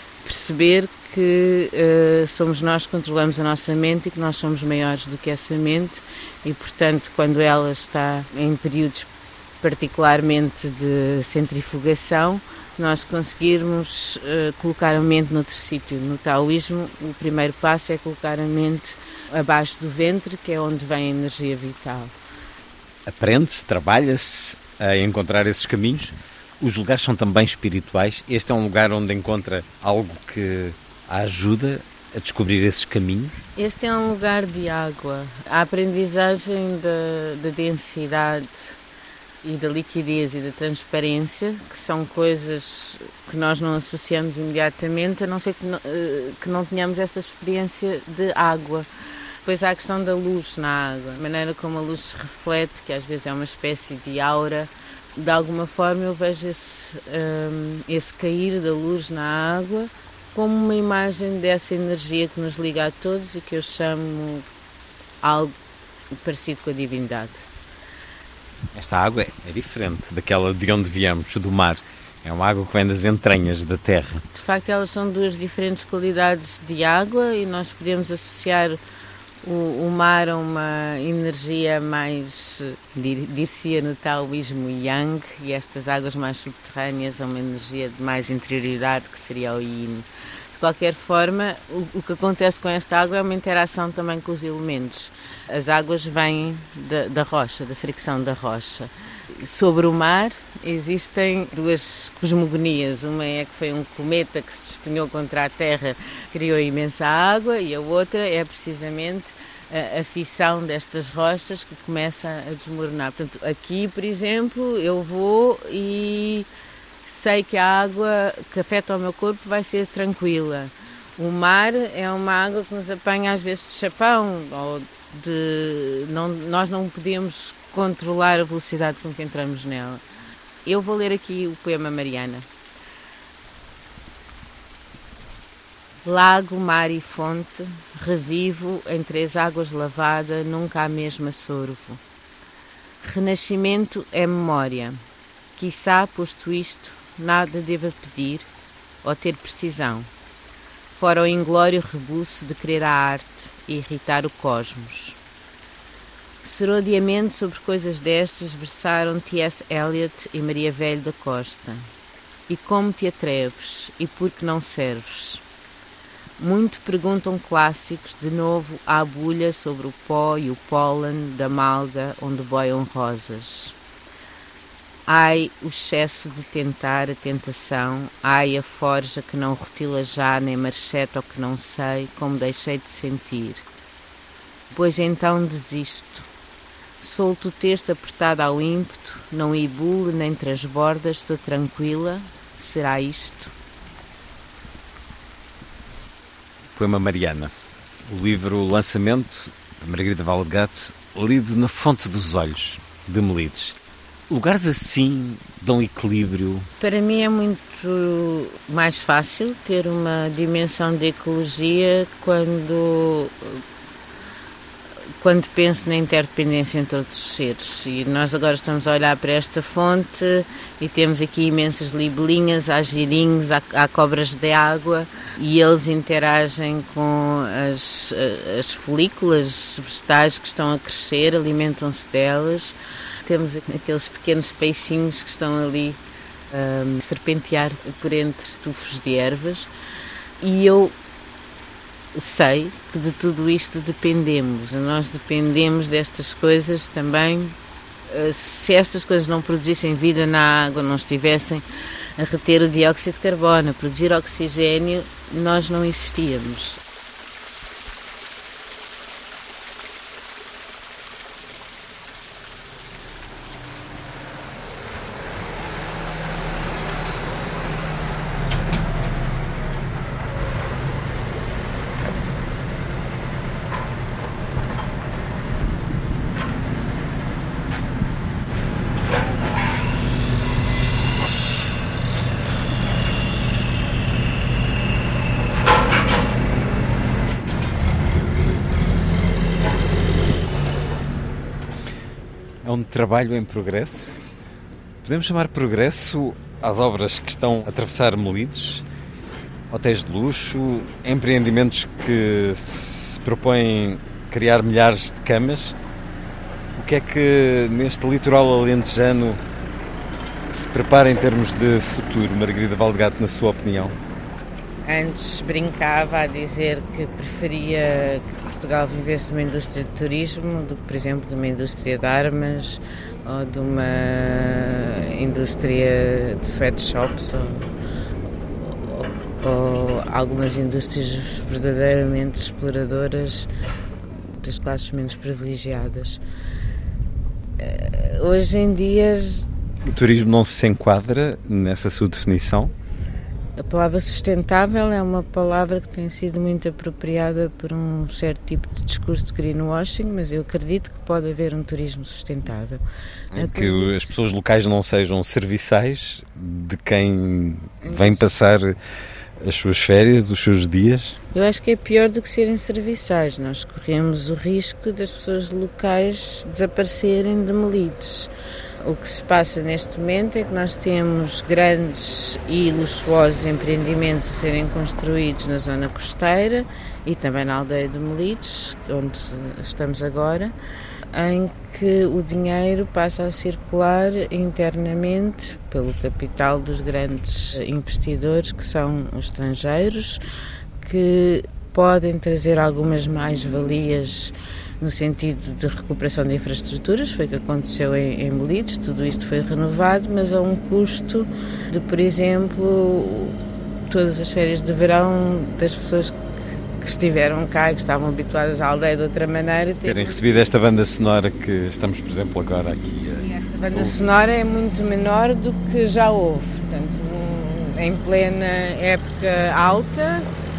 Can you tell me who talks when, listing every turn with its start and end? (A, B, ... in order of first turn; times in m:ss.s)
0:00.2-0:09.1 A
0:09.6-0:22.1 A
0:23.1-0:33.4 B
0:33.6-0:38.8 A
0:39.4-0:48.9 A
0:49.4-1:04.5 A
1:05.2-1:05.5 A
1:06.2-1:07.5 A
1:08.8-1:14.3 B
1:14.3-1:18.8 A
1:19.4-1:56.5 A
1:57.0-2:10.0 A
2:10.6-2:12.5 A
2:16.0-2:22.0 A
2:23.0-2:25.0 A
2:25.6-2:28.5 A
2:29.0-2:30.1 A
2:30.9-2:35.2 A
2:36.4-2:41.9 A
2:42.5-2:45.4 A
2:46.4-2:53.8 A
2:55.1-3:03.7 A
3:04.7-3:06.3 A
3:07.0-3:13.5 A
3:16.7-3:17.5 B
3:18.1-3:23.8 B
3:24.3-3:26.7 B
3:26.8-3:33.6 A
3:35.2-3:56.0 A
3:56.5-3:59.7 A
4:00.4-4:01.0 A
4:02.1-4:07.6 A
4:08.1-4:11.6 A
4:12.2-4:16.8 A
4:52.6-4:54.1 B
4:55.0-4:58.8 B
4:59.7-5:05.8 B
5:06.8-5:09.4 B
5:10.5-5:14.0 B
5:14.8-5:27.7 A
5:28.6-5:33.5 A
5:34.3-5:36.2 A
5:37.6-5:39.5 A
5:39.9-5:42.7 B
5:43.6-5:53.9 A
5:53.3-5:58.7 B
5:57.8-5:58.3 A
5:59.4-6:01.2 B
6:01.3-6:08.3 A
6:08.8-6:20.5 A
6:21.1-6:30.2 A
6:30.8-6:46.2 A
6:46.8-6:50.4 A
6:49.8-6:54.0 B
6:53.2-7:00.3 A